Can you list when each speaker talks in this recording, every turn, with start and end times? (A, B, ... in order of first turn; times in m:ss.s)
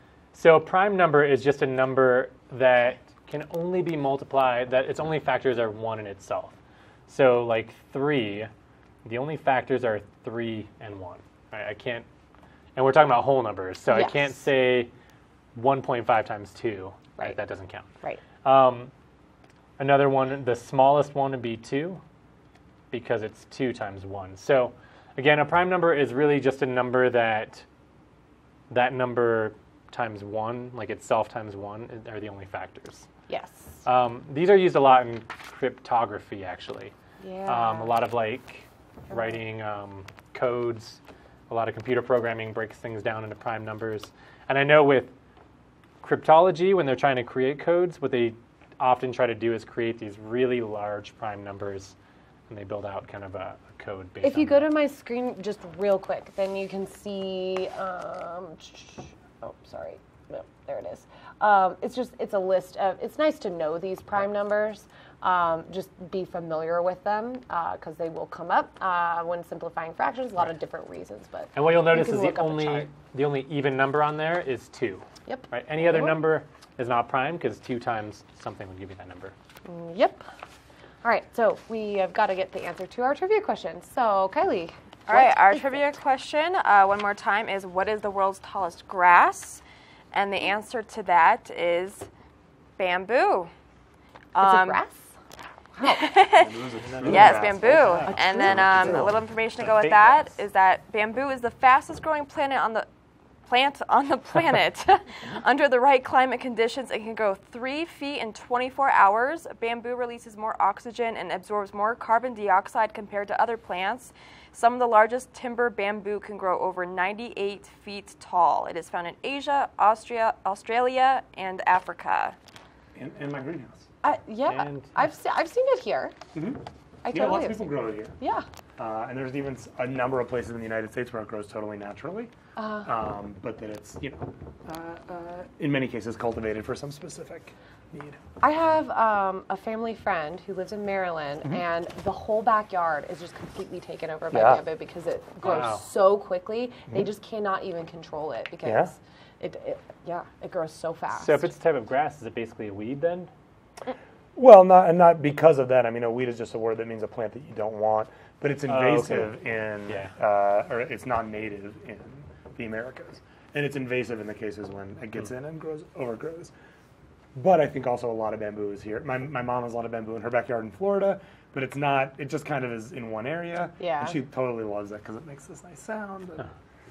0:00.3-0:06.6 A
0:07.1-0:08.5 A
0:09.0-0:12.0 A
0:12.8-0:14.9 A
0:13.9-0:14.3 B
0:15.5-0:17.9 A
0:18.4-0:18.9 A
0:19.8-0:22.0 A
0:22.9-0:27.6 A
0:28.7-0:33.1 A
0:33.3-0:33.8 B
0:33.8-0:36.9 A
0:37.2-0:38.0 B
0:37.4-0:45.1 A
0:39.1-0:39.4 B
0:46.0-0:52.0 A
0:52.5-0:54.7 A
0:54.2-1:12.9 B
1:11.5-1:19.3 A
1:15.2-1:16.2 B
1:19.6-1:20.3 B
1:21.0-1:25.9 B
1:25.1-1:32.1 C
1:32.8-1:33.5 C
1:34.3-1:34.8 C
1:34.4-1:35.2 B
1:35.7-1:36.1 B
1:35.8-1:42.9 C
1:36.3-1:39.2 D
1:36.8-1:40.4 A
1:43.4-2:02.4 C
2:02.9-2:03.9 D
2:04.0-2:06.2 B
2:04.4-2:05.0 A
2:06.3-2:08.2 D
2:07.0-2:08.4 B
2:08.8-2:12.3 D
2:12.6-2:12.9 B
2:12.8-2:18.2 D
2:18.4-2:31.5 B
2:24.3-2:24.6 D
2:25.4-2:25.8 A
2:28.6-2:28.9 D
2:31.1-2:33.3 A
2:34.4-2:46.5 D
2:38.7-2:40.1 A
2:47.3-2:56.5 D
2:53.8-2:54.2 B